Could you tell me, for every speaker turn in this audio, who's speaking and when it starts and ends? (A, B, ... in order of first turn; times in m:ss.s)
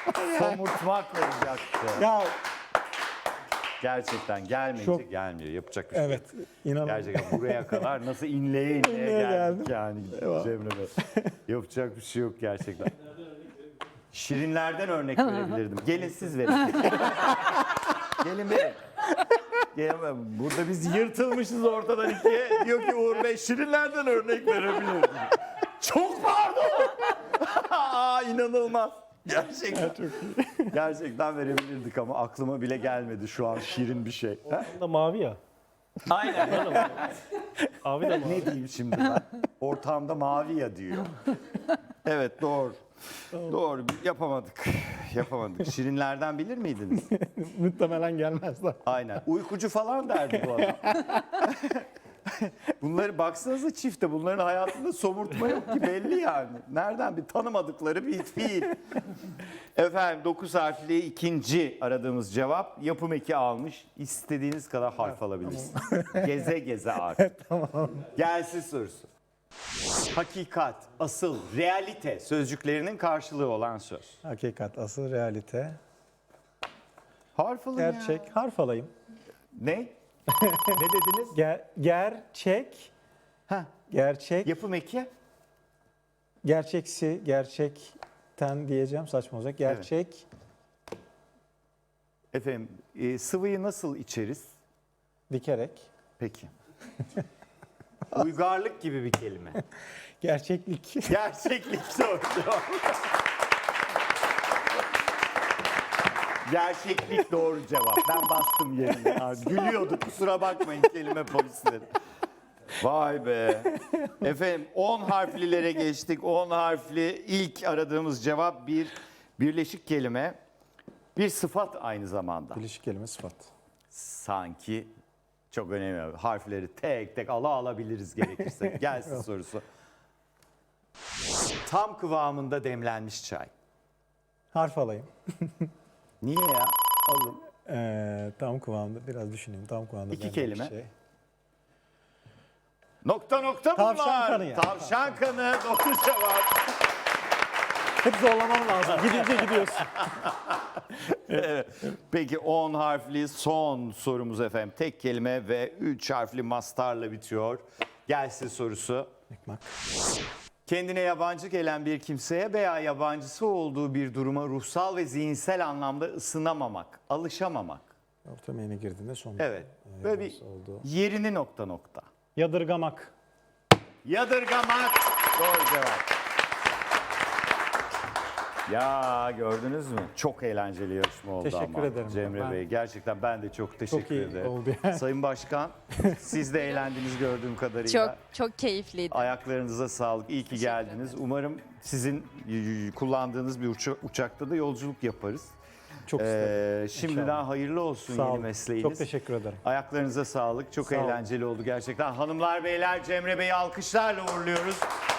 0:00.2-0:02.1 A
0:00.2-0:00.6 B
0:02.0-0:02.3 B
0:03.8-0:06.3 A
0:04.8-0:05.0 B
0:05.9-0:07.9 B
0:06.8-0:10.9 A
0:08.8-0:10.5 B
0:11.4-0:12.9 A
0:14.1-0:17.4 A
0:18.2-0:18.8 A
0:19.7-0:34.7 A
0:29.7-0:30.7 B
0:34.5-0:35.4 C
0:36.0-0:37.1 A
0:36.4-0:37.1 C
0:37.8-0:38.5 C
0:38.1-0:41.2 A
0:42.0-0:42.8 A
0:43.3-0:47.0 A
0:47.0-0:49.0 B
0:48.8-0:58.8 A
0:50.3-0:51.4 B
0:59.8-1:07.2 A
1:05.7-1:06.2 B
1:07.2-1:08.1 B
1:08.1-1:09.1 A
1:10.1-1:14.2 A
1:14.2-1:15.8 B
1:17.3-1:18.3 A
1:17.8-1:18.9 B
1:19.6-1:19.9 A
1:20.4-1:20.8 B
1:20.7-1:21.4 A
1:21.3-1:22.9 B
1:23.9-1:24.5 B
1:24.4-1:25.1 A
1:26.4-1:30.2 B
1:32.3-1:34.5 A
1:35.3-1:35.9 B
1:36.2-1:36.5 A
1:38.1-1:39.6 A
1:40.2-1:41.2 B
1:41.0-1:43.0 A
1:46.4-1:51.9 A
1:52.8-2:00.4 A
2:01.2-2:02.6 A
2:02.5-2:03.5 B
2:03.9-2:04.9 A
2:05.5-2:09.6 A
2:08.4-2:09.2 B
2:11.6-2:13.5 A
2:14.5-2:15.6 B
2:16.2-2:17.4 A
2:17.6-2:20.9 B
2:20.1-2:20.7 A
2:23.0-2:26.7 A
2:23.7-2:25.2 B
2:28.0-2:30.1 B
2:28.9-2:30.2 A
2:31.1-2:39.1 A
2:39.3-2:39.7 B
2:40.6-2:47.9 A
2:48.2-2:50.8 B
2:49.4-2:52.1 A
2:52.3-2:53.1 B
2:54.0-2:56.1 A
2:58.7-3:08.2 A
3:01.4-3:02.6 B
3:03.9-3:05.0 B
3:06.0-3:06.3 B
3:07.8-3:09.3 D
3:09.1-3:15.5 A
3:10.5-3:11.1 D
3:16.1-3:17.4 B
3:16.1-3:19.1 A
3:18.1-3:19.6 B
3:19.6-3:24.9 A
3:20.9-3:21.2 B